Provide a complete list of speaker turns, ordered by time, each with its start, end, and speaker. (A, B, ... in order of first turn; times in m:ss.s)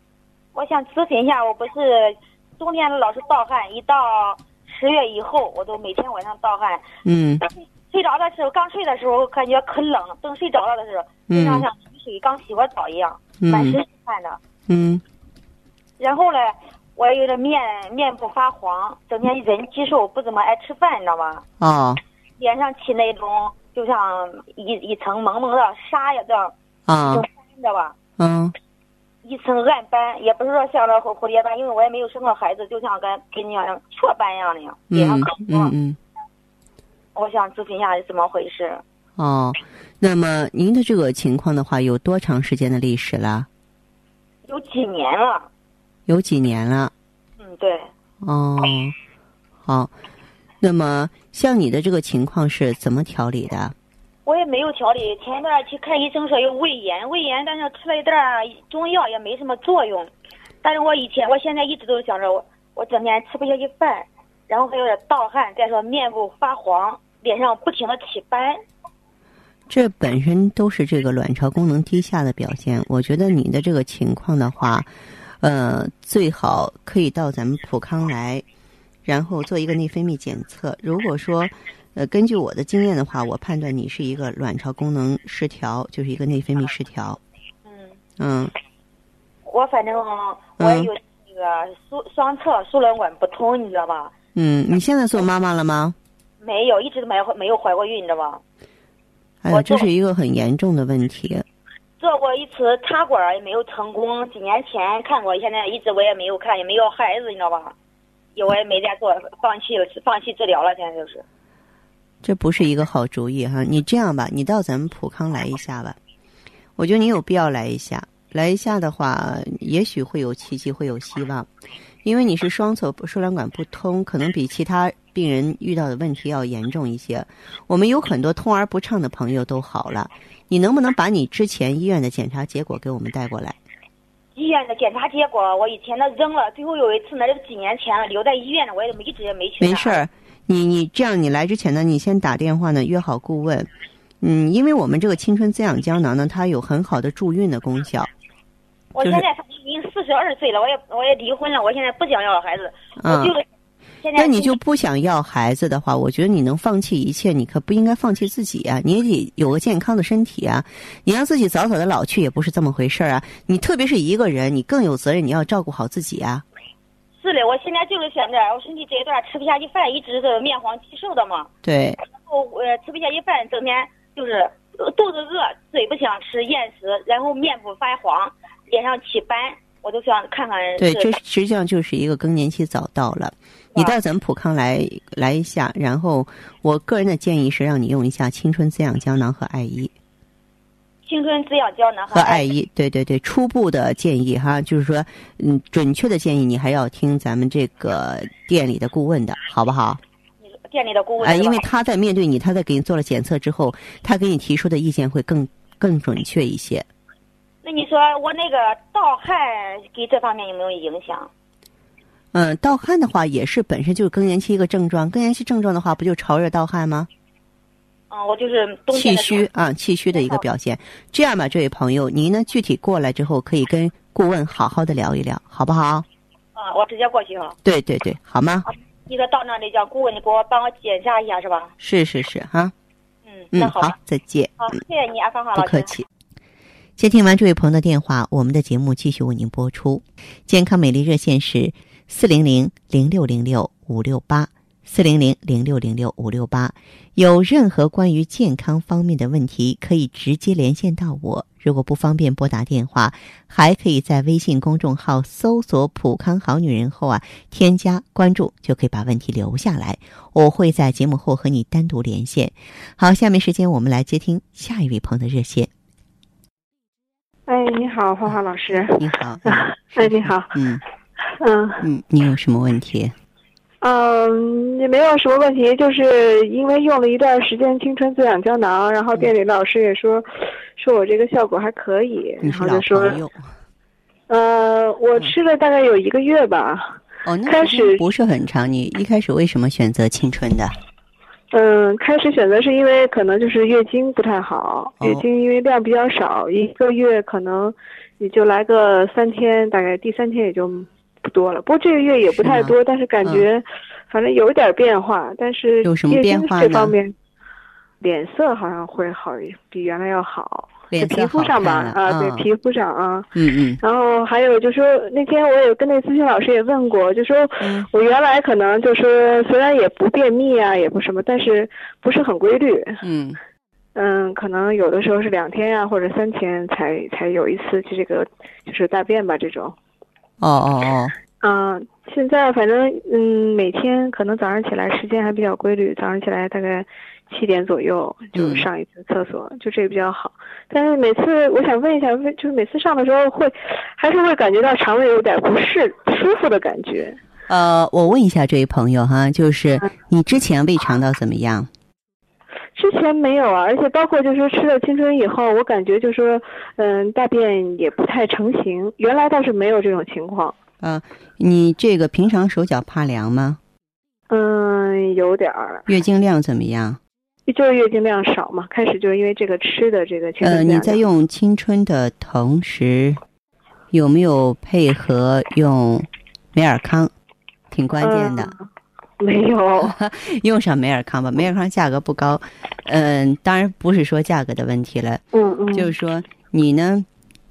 0:00.5-0:06.8 A
0:07.0-0:07.4 B
0:07.4-0:14.4 A
0:11.3-0:11.7 B
0:13.4-0:13.8 B
0:14.7-0:15.0 B
0:16.0-0:21.4 A
0:21.6-0:22.0 B
0:22.4-0:26.5 A
0:26.9-0:27.3 B
0:27.1-0:28.0 A
0:28.2-0:28.6 B
0:29.2-0:35.7 A
0:34.9-0:36.0 B
0:37.2-0:38.8 A
0:39.2-0:43.5 B
0:44.5-0:45.5 A
0:46.1-0:46.9 B
0:47.4-0:47.9 A
0:48.2-0:49.0 B
0:49.6-0:49.9 B
0:50.6-0:53.8 B
0:54.2-1:00.1 A
1:00.6-1:08.6 A
1:09.7-1:14.9 B
1:15.4-1:18.4 B
1:19.1-1:27.2 B
1:27.7-1:28.0 A
1:28.2-1:28.5 B
1:29.5-1:34.1 A
1:30.6-1:30.9 B
1:34.4-1:36.0 B
1:36.4-1:38.4 A
1:39.4-1:41.4 B
1:39.5-1:39.9 A
1:42.0-1:47.7 A
1:48.4-1:51.2 A
1:52.2-1:56.0 B
1:56.8-2:01.5 B
2:02.0-2:13.6 B
2:14.4-2:20.0 A
2:19.6-2:23.7 B
2:24.2-2:28.1 B
2:28.9-2:33.4 A
2:33.0-2:33.3 B
2:34.0-2:34.5 A
2:34.2-2:46.4 B
2:47.2-2:51.5 A
2:51.6-2:52.0 B
2:52.1-3:01.1 A
3:00.8-3:09.9 B
3:11.1-3:12.5 A
3:12.1-3:20.0 B
3:20.4-3:21.7 A
3:21.2-3:26.9 B
3:27.6-3:31.3 A
3:32.3-3:37.1 B
3:38.1-3:39.5 A
3:38.9-3:46.1 B
3:40.2-3:40.5 A
3:46.6-3:47.6 A
3:47.6-3:48.7 B
3:48.7-3:51.7 A
3:51.8-3:52.7 B
3:53.3-3:54.0 A
3:53.5-3:54.7 B
3:54.6-3:55.9 A
3:55.6-3:56.1 B
3:57.0-4:25.7 B
4:27.5-4:30.5 C
4:29.0-4:30.8 B
4:31.4-4:31.8 C
4:31.8-4:33.1 B
4:33.8-4:43.2 C
4:42.4-4:43.4 B
4:44.3-4:48.0 C
4:47.2-4:50.7 B
4:51.5-5:07.1 C
4:55.0-4:55.2 B
5:02.3-5:03.5 B
5:05.8-5:07.0 B
5:08.0-5:23.0 C
5:10.9-5:12.5 B
5:13.4-5:13.8 B
5:17.6-5:17.9 B
5:23.0-5:23.4 B
5:24.0-5:29.8 C
5:30.4-5:31.1 B
5:31.4-5:47.2 C
5:38.4-5:38.7 B
5:47.5-5:51.7 B
5:52.8-6:00.6 C
6:00.8-6:03.6 B
6:04.3-6:05.9 C
6:05.9-6:07.0 B
6:07.5-6:11.0 C
6:10.4-6:13.2 B
6:13.9-6:17.1 B
6:17.7-6:18.5 B
6:18.0-6:18.7 C
6:19.2-6:20.0 C
6:19.8-6:25.2 B
6:25.3-6:25.9 C
6:25.7-6:27.1 B